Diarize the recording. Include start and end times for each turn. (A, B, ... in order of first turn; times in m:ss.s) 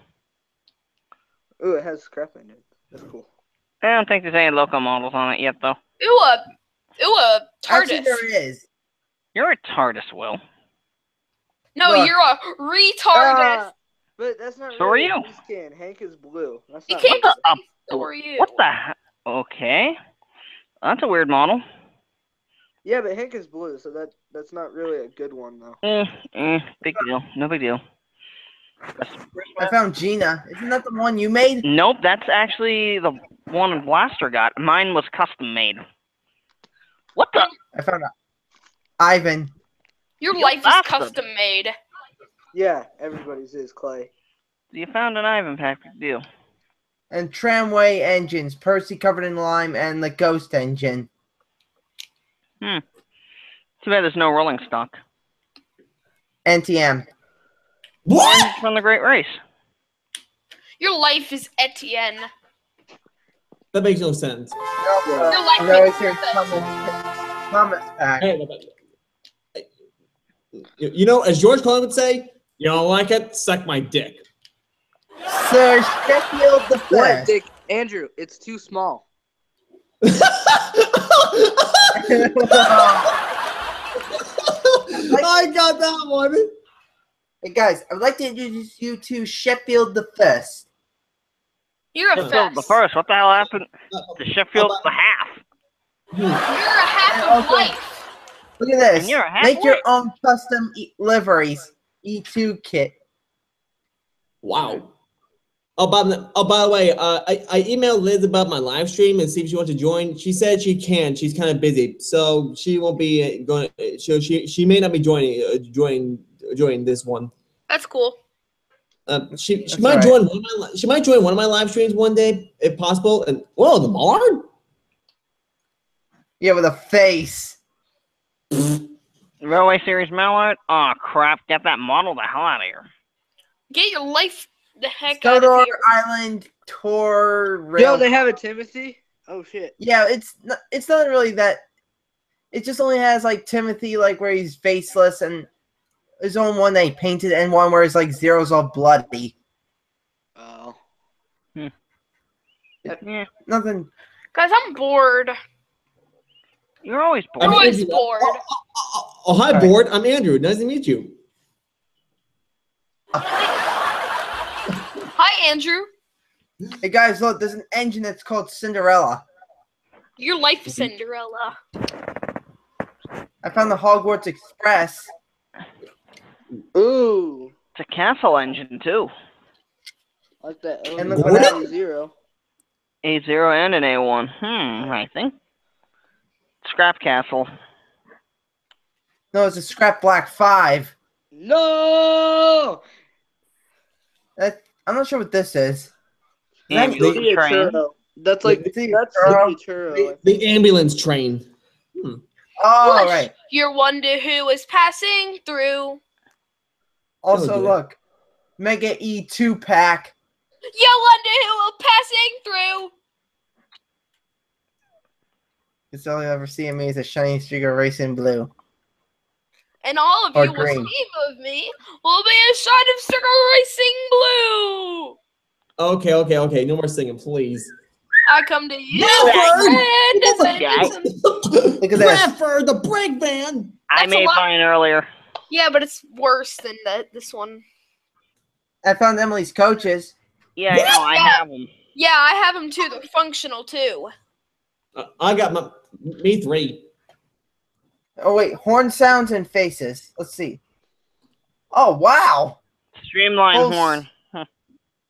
0:01.6-0:03.3 A
0:03.8-0:05.8 B
0:06.0-0:06.4 C
0:07.0-0:08.2 C
0:07.7-0:08.6 D
0:09.3-0:10.4 B
0:11.8-0:13.7 C
0:11.8-0:12.1 D
0:13.1-0:17.3 A
0:14.8-0:15.2 B
0:16.9-0:18.6 C
0:17.1-0:20.0 B
0:20.8-0:21.6 B
0:22.8-0:25.8 A
0:25.8-0:27.8 B
0:29.0-0:29.8 B
0:29.6-0:31.6 D
0:31.6-0:35.8 B
0:37.2-0:37.5 B
0:37.7-0:38.1 D
0:39.0-0:39.5 D
0:40.2-0:41.8 C
0:40.3-0:41.1 B
0:42.5-0:44.1 A
0:44.7-0:46.2 B
0:47.1-0:51.1 D
0:53.8-0:55.0 B
0:56.4-0:57.0 D
0:58.0-0:58.6 E
0:58.2-0:59.4 B
1:00.8-1:02.3 C
1:03.7-1:04.6 E
1:04.8-1:06.9 D
1:05.0-1:05.4 A
1:05.3-1:06.4 C
1:07.5-1:08.3 D
1:08.2-1:08.7 E
1:10.5-1:14.2 E
1:15.3-1:17.3 D
1:16.9-1:19.0 A
1:20.0-1:23.1 E
1:22.0-1:23.1 D
1:24.1-1:26.5 E
1:25.1-1:25.4 D
1:27.4-1:30.7 D
1:31.9-1:32.8 C
1:32.2-1:35.4 B
1:33.9-1:34.9 E
1:36.1-1:36.4 E
1:36.4-1:38.0 C
1:37.1-1:37.7 D
1:38.6-1:42.9 D
1:38.9-1:39.8 B
1:44.4-1:44.9 E
1:45.8-1:57.3 E
1:57.7-1:58.2 C
1:59.1-2:04.5 E
1:59.7-2:00.2 D
2:06.4-2:07.6 D
2:09.4-2:12.9 B
2:13.7-2:15.8 C
2:15.2-2:18.1 D
2:17.8-2:19.7 A
2:19.8-2:21.6 D
2:22.5-2:25.5 D
2:26.2-2:29.3 D
2:30.4-2:30.8 A
2:33.0-2:33.3 B
2:33.4-2:33.9 D
2:34.3-2:35.4 C
2:36.8-2:37.7 B
2:37.4-2:41.2 E
2:37.4-2:38.4 C
2:45.1-2:45.9 C
2:46.8-2:49.2 D
2:50.2-2:51.6 C
2:53.4-2:55.1 D
2:56.7-2:57.5 A
2:57.8-2:59.1 B
3:00.4-3:02.1 A
3:01.0-3:01.7 D
3:01.1-3:01.6 E
3:03.0-3:05.3 B
3:06.6-3:07.5 B
3:09.3-3:10.9 D
3:11.3-3:12.8 A
3:14.4-3:15.9 D
3:16.7-3:17.8 B
3:16.7-3:17.4 D
3:17.0-3:20.2 A
3:18.5-3:20.1 D
3:20.2-3:22.2 E
3:22.6-3:23.3 D
3:22.8-3:26.0 C
3:27.2-3:28.0 D
3:27.3-3:27.8 E
3:28.6-3:30.1 D
3:30.7-3:32.9 C
3:35.9-3:38.5 D
3:39.8-3:45.2 C
3:40.3-3:40.9 D
3:45.8-3:47.7 E
3:48.3-3:51.1 C
3:48.9-3:53.8 E
3:49.2-3:49.5 B
3:50.6-3:50.9 B
3:51.8-3:52.3 D
3:53.9-3:55.1 B
3:53.9-3:54.4 C
3:55.5-3:57.6 C
3:58.8-4:00.1 D
4:00.6-4:01.7 B
4:00.7-4:01.0 E
4:00.8-4:01.4 C
4:01.9-4:04.1 C
4:05.0-4:06.8 E
4:08.2-4:10.6 D
4:11.7-4:12.6 D
4:13.0-4:14.4 B
4:13.5-4:14.0 D